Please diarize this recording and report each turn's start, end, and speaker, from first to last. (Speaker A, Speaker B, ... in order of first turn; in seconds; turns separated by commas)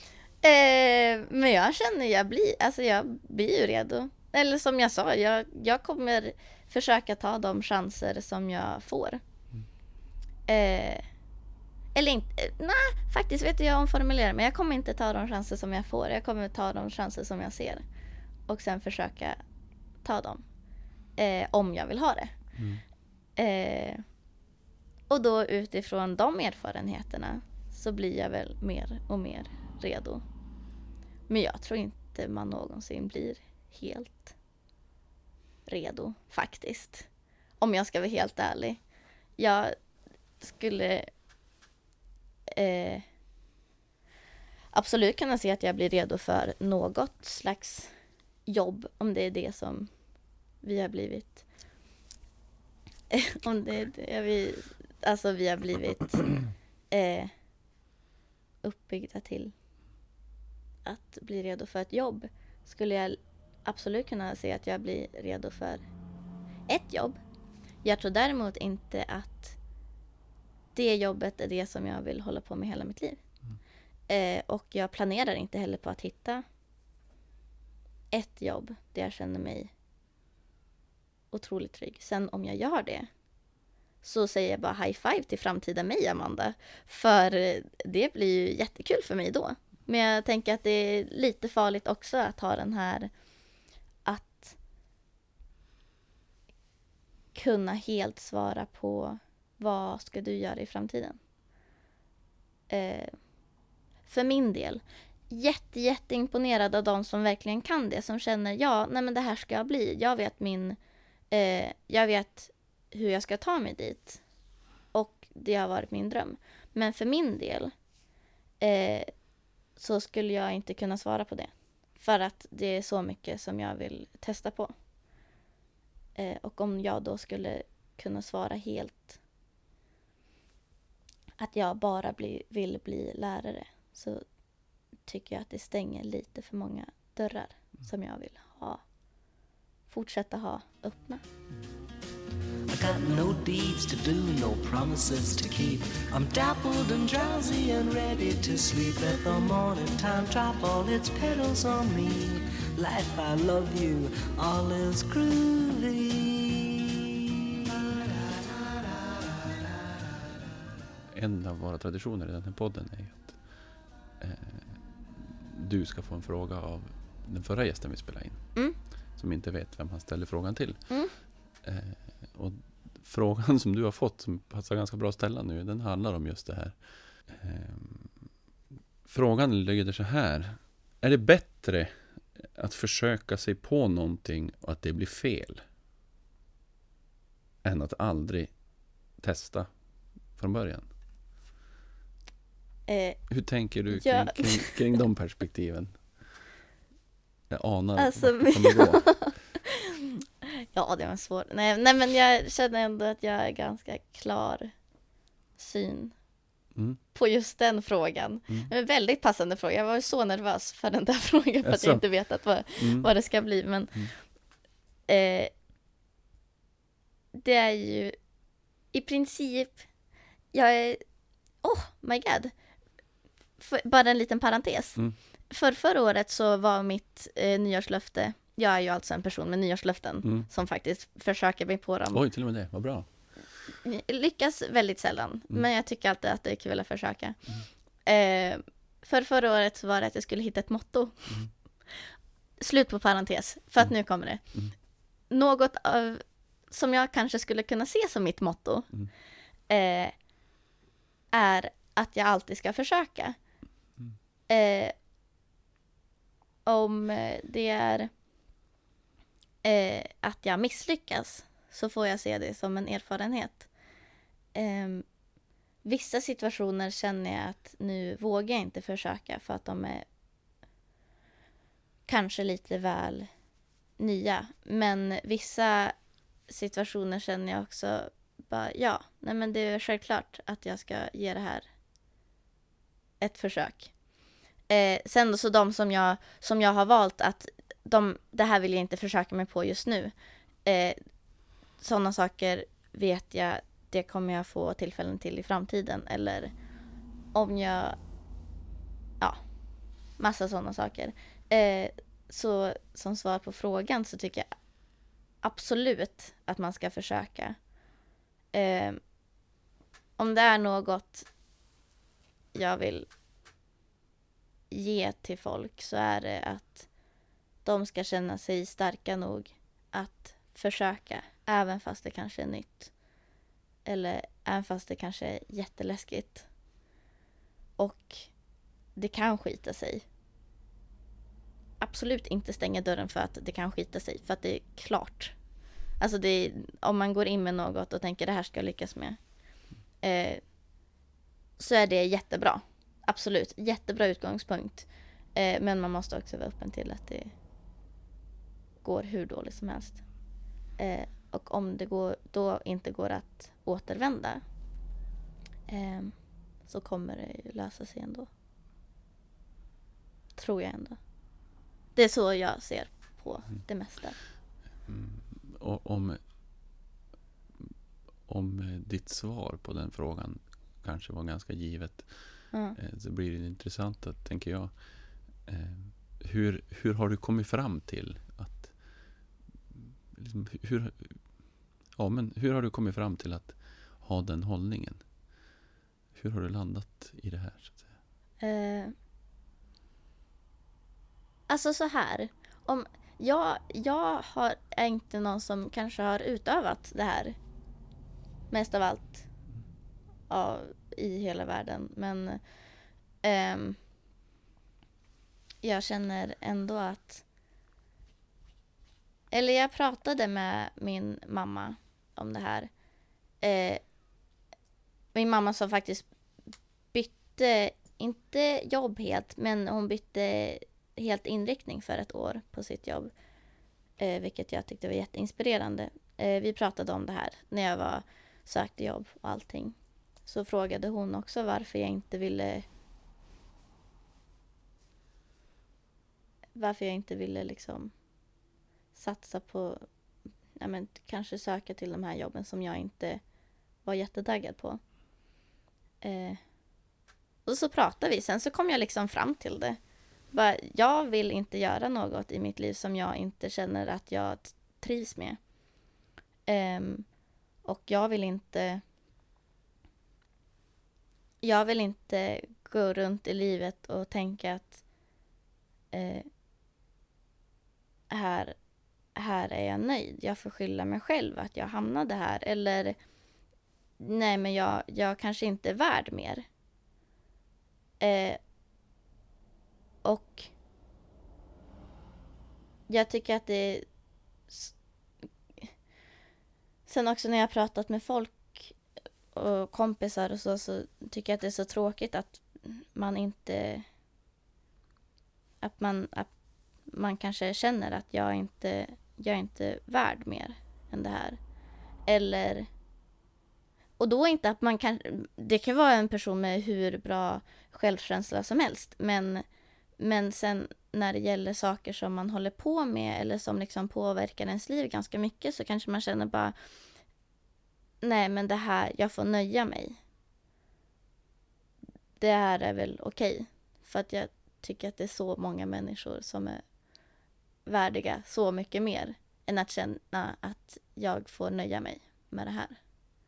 Speaker A: 0.4-9.2, Speaker A: 10.5-11.1, Speaker A: 11.9-17.8, Speaker A: 18.5-19.4, Speaker A: 20.0-20.4, Speaker A: 21.2-22.3, Speaker B: 22.6-22.8, Speaker A: 23.4-24.0, Speaker A: 25.1-30.2, Speaker A: 31.3-34.3, Speaker A: 35.7-37.1, Speaker A: 37.6-38.8, Speaker A: 39.4-39.8, Speaker A: 40.4-41.1, Speaker A: 42.5-43.0, Speaker A: 44.7-47.9, Speaker A: 48.5-49.9, Speaker A: 50.6-51.4, Speaker A: 53.1-57.3, Speaker A: 58.6-59.5, Speaker A: 60.9-65.8, Speaker A: 66.7-67.2, Speaker A: 67.8-69.6, Speaker A: 70.8-73.2, Speaker A: 74.1-76.4, Speaker A: 78.1-79.7, Speaker A: 81.3-83.1, Speaker A: 84.0-93.1, Speaker A: 94.0-94.6, Speaker A: 97.3-101.2, Speaker A: 102.7-103.1, Speaker A: 104.1-110.8, Speaker A: 111.3-114.2, Speaker A: 114.9-117.7, Speaker A: 118.6-119.1, Speaker A: 119.8-124.7, Speaker A: 126.2-129.2, Speaker A: 131.4-134.2, Speaker A: 135.1-138.8, Speaker A: 139.9-141.2, Speaker C: 142.7-157.0, Speaker B: 161.1-168.6, Speaker B: 169.1-178.3, Speaker B: 179.1-185.6, Speaker B: 187.6-188.6, Speaker B: 189.2-189.7, Speaker B: 190.3-190.9, Speaker A: 192.9-193.3, Speaker B: 193.3-196.5, Speaker A: 193.9-194.8, Speaker B: 197.5-199.3, Speaker A: 198.0-200.2, Speaker A: 200.7-204.7, Speaker A: 205.6-206.1, Speaker B: 206.8-207.0, Speaker A: 207.1-214.1, Speaker B: 211.6-212.1, Speaker B: 212.7-213.1, Speaker A: 215.1-215.5, Speaker A: 217.3-218.2, Speaker A: 218.9-219.8, Speaker A: 220.5-221.0, Speaker A: 221.6-222.5, Speaker A: 223.6-225.0, Speaker A: 225.5-232.2, Speaker B: 230.2-230.5, Speaker B: 232.1-233.1, Speaker A: 233.8-237.4, Speaker A: 238.1-241.4, Speaker A: 242.6-244.4, Speaker A: 245.3-248.9, Speaker A: 249.7-250.1, Speaker A: 251.3-253.4, Speaker A: 254.5-254.9, Speaker A: 256.7-258.1, Speaker A: 259.6-263.7, Speaker A: 264.6-265.1, Speaker A: 265.8-270.1, Speaker A: 272.1-273.3, Speaker A: 274.0-275.9, Speaker A: 276.5-281.7, Speaker A: 283.2-283.9, Speaker A: 284.7-290.1, Speaker A: 290.6-291.0, Speaker A: 291.8-296.5, Speaker A: 297.3-298.0, Speaker A: 300.2-304.5, Speaker A: 305.4-307.6, Speaker A: 308.5-309.0, Speaker A: 310.2-311.3, Speaker A: 312.5-313.1, Speaker A: 314.7-316.9, Speaker A: 317.6-322.9, Speaker A: 323.9-326.5, Speaker A: 327.8-328.3, Speaker A: 329.0-330.0, Speaker A: 331.8-335.4, Speaker A: 336.0-339.2, Speaker A: 340.0-340.4, Speaker A: 341.6-347.3, Speaker A: 348.8-350.0, Speaker A: 350.8-354.4, Speaker A: 355.7-358.3, Speaker A: 360.4-361.0, Speaker A: 362.0-364.2, Speaker B: 364.8-366.2, Speaker B: 368.2-385.0, Speaker A: 372.5-372.8, Speaker B: 386.1-387.9, Speaker A: 388.4-388.9, Speaker A: 391.5-397.4, Speaker A: 398.5-399.3, Speaker A: 400.3-402.4, Speaker A: 403.2-403.8, Speaker A: 405.6-407.2, Speaker A: 409.3-412.7, Speaker A: 413.4-413.8, Speaker A: 415.1-416.1, Speaker A: 416.9-423.1, Speaker A: 424.0-432.7, Speaker A: 436.6-437.9, Speaker A: 438.9-439.8, Speaker A: 440.6-443.2, Speaker A: 443.9-444.8, Speaker A: 446.0-446.4, Speaker A: 447.5-449.8, Speaker A: 450.3-455.4, Speaker A: 456.5-457.1, Speaker A: 457.6-458.8, Speaker A: 461.4-464.8, Speaker A: 465.9-466.3, Speaker A: 468.1-468.6, Speaker A: 469.1-473.0, Speaker A: 474.0-476.5, Speaker A: 478.0-478.4, Speaker A: 480.0-480.5, Speaker A: 482.9-483.9, Speaker A: 486.9-488.8, Speaker A: 489.3-493.9, Speaker A: 495.6-496.3, Speaker A: 496.9-501.4, Speaker A: 502.1-502.7, Speaker A: 504.0-509.4, Speaker A: 510.0-516.5, Speaker A: 518.0-520.0, Speaker A: 522.2-526.6, Speaker A: 527.7-532.8